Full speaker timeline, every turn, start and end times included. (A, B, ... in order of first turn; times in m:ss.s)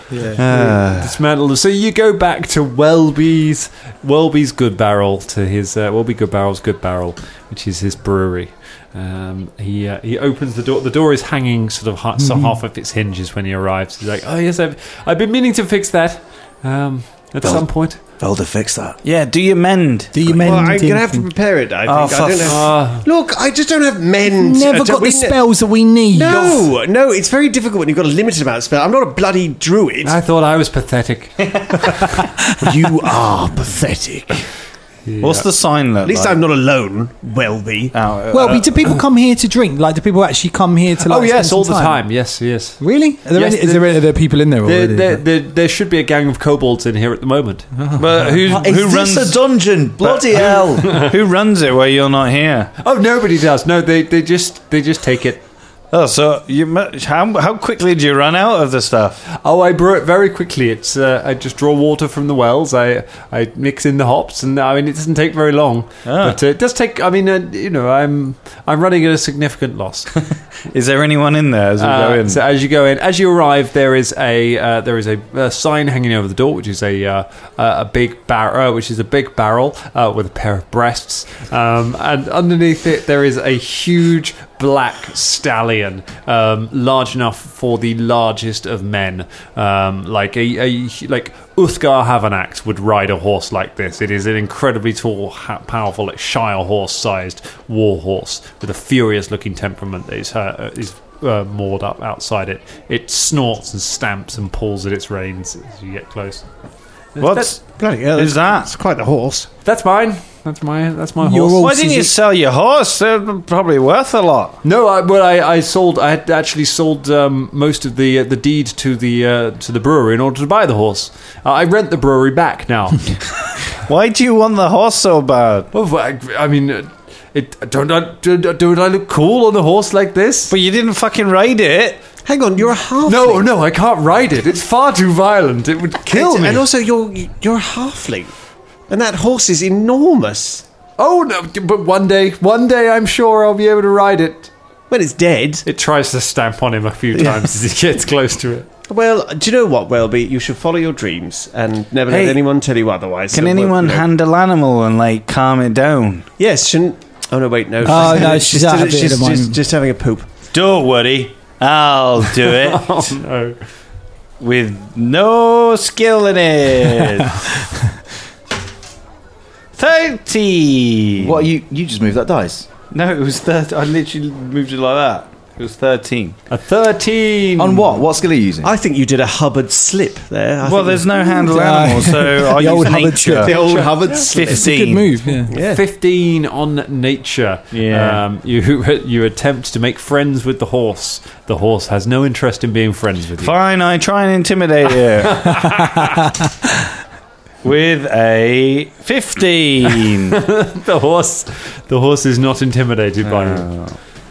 0:00.1-0:00.4 A
0:00.4-0:01.1 B
0:00.5-0:18.0 C
0:12.2-0:12.5 A
0:18.2-0:19.0 B
0:19.0-0:20.7 D
0:20.1-0:21.3 A
0:20.4-0:30.2 E
0:21.9-0:22.7 D
0:22.5-0:23.1 C
0:24.3-0:26.6 A
0:30.0-0:32.2 C
0:32.6-0:34.5 E
0:35.1-0:35.5 C
0:35.2-0:36.4 D
0:36.0-0:38.0 E
0:37.9-0:38.9 D
0:38.3-0:42.0 A
0:41.0-0:44.1 C
0:42.8-0:45.2 A
0:44.6-0:47.7 C
0:47.8-0:48.1 A
0:48.0-0:49.4 D
0:48.4-0:50.9 B
0:50.1-0:51.1 C
0:50.9-0:52.7 D
0:52.8-0:55.4 C
0:55.9-0:59.2 D
0:59.4-1:10.1 C
1:06.0-1:06.4 D
1:10.2-1:12.4 D
1:11.8-1:46.4 C
1:47.2-1:47.6 C
1:47.2-1:48.7 D
1:47.7-1:49.5 E
1:49.6-1:51.7 C
1:51.2-1:52.1 A
1:51.6-1:54.6 D
1:54.6-2:03.2 C
2:03.9-2:05.7 D
2:05.7-2:10.5 C
2:10.5-2:12.0 D
2:12.2-2:13.5 E
2:13.1-2:16.6 C
2:16.1-2:18.3 E
2:18.9-2:20.6 E
2:21.0-2:24.5 C
2:24.9-2:25.7 E
2:25.7-2:28.7 C
2:27.2-2:27.5 E
2:28.9-2:34.1 E
2:32.1-2:32.4 D
2:33.3-2:36.3 D
2:36.4-2:40.3 E
2:37.8-2:39.6 A
2:40.5-2:43.2 D
2:42.6-2:43.6 C
2:44.4-2:47.5 D
2:49.8-2:51.4 D
2:51.2-2:52.7 B
2:52.9-2:56.4 D
2:56.5-2:57.9 C
2:57.6-2:58.7 B
2:58.6-3:01.4 E
3:00.6-3:03.6 D
3:01.3-3:03.5 A
3:03.3-3:04.7 E
3:03.5-3:04.2 C
3:04.1-3:05.2 D
3:04.5-3:05.5 A
3:05.4-3:05.8 E
3:05.5-3:13.5 C
3:07.7-3:08.2 D
3:13.4-3:15.7 D
3:15.2-3:16.2 C
3:17.6-3:20.4 D
3:20.3-3:23.9 C
3:23.2-3:24.0 D